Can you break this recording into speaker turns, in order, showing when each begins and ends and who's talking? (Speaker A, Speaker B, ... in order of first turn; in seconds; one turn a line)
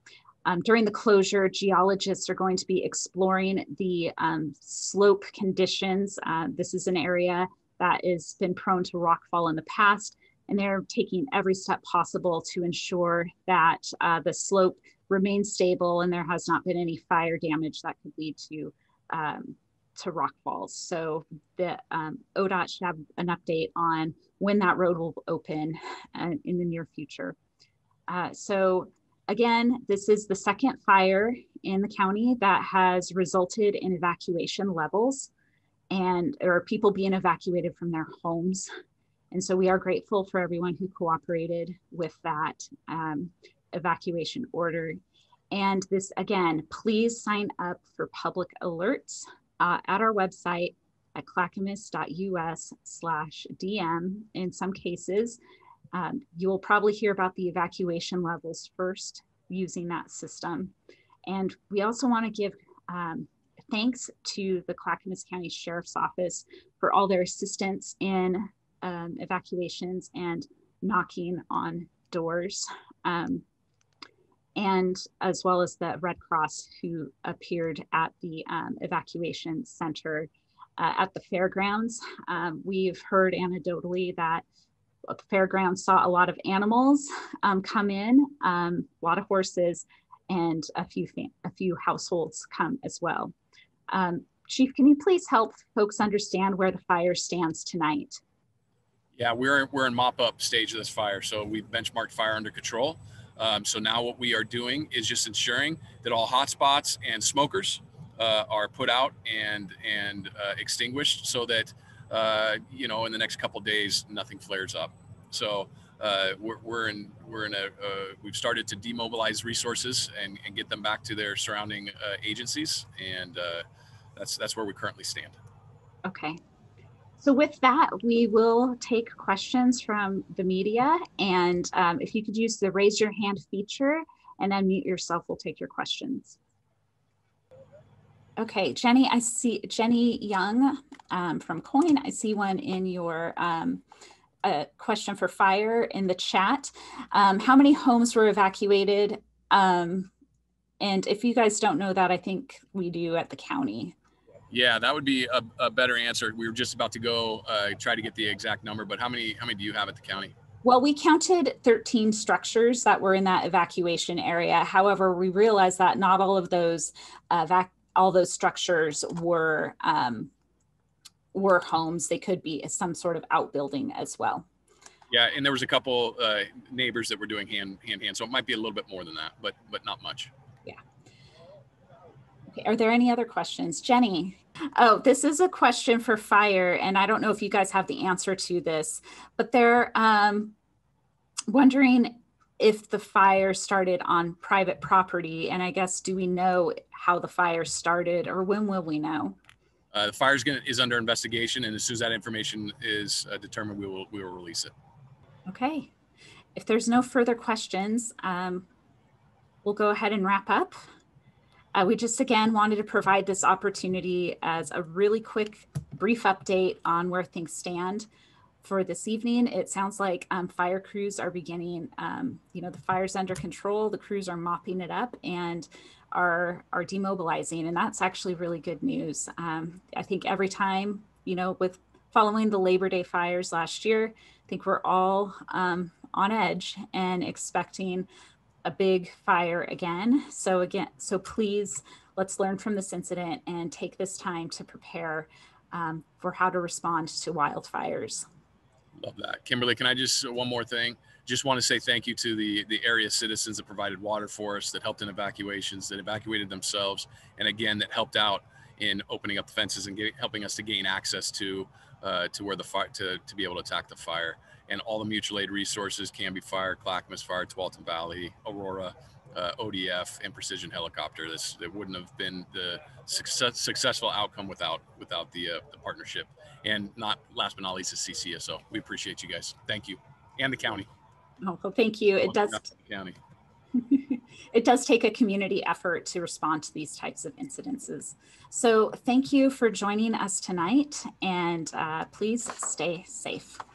Speaker A: 0.5-27.4
Speaker A: 28.1-35.3
Speaker A: 35.9-38.7
Speaker A: 39.3-45.0
Speaker A: 45.5-55.4
Speaker A: 55.9-60.7
Speaker A: 61.3-73.4
Speaker A: 74.6-84.4
Speaker A: 85.1-93.3
Speaker A: 93.9-98.2
Speaker B: 99.2-123.7
Speaker B: 124.2-125.4
Speaker A: 126.0-126.4
Speaker A: 127.2-136.4
Speaker A: 138.4-143.8
Speaker A: 144.4-150.1
Speaker A: 150.8-153.9
Speaker B: 154.5-160.3
Speaker A: 160.6-170.3
Speaker A: 171.3-174.5
Speaker B: 175.1-180.3
Speaker A: 182.5-190.5
Speaker A: 191.5-199.4
Speaker B: 199.9-204.7
Speaker A: 205.5-205.9
Speaker A: 206.6-208.7
Speaker A: 209.6-210.8
Speaker A: 211.8-218.1
Speaker A: 218.6-238.1
Speaker A: 238.6-248.2
Speaker B: 249.0-280.9
Speaker A: 281.4-282.6
Speaker B: 282.2-283.2
Speaker A: 283.8-293.6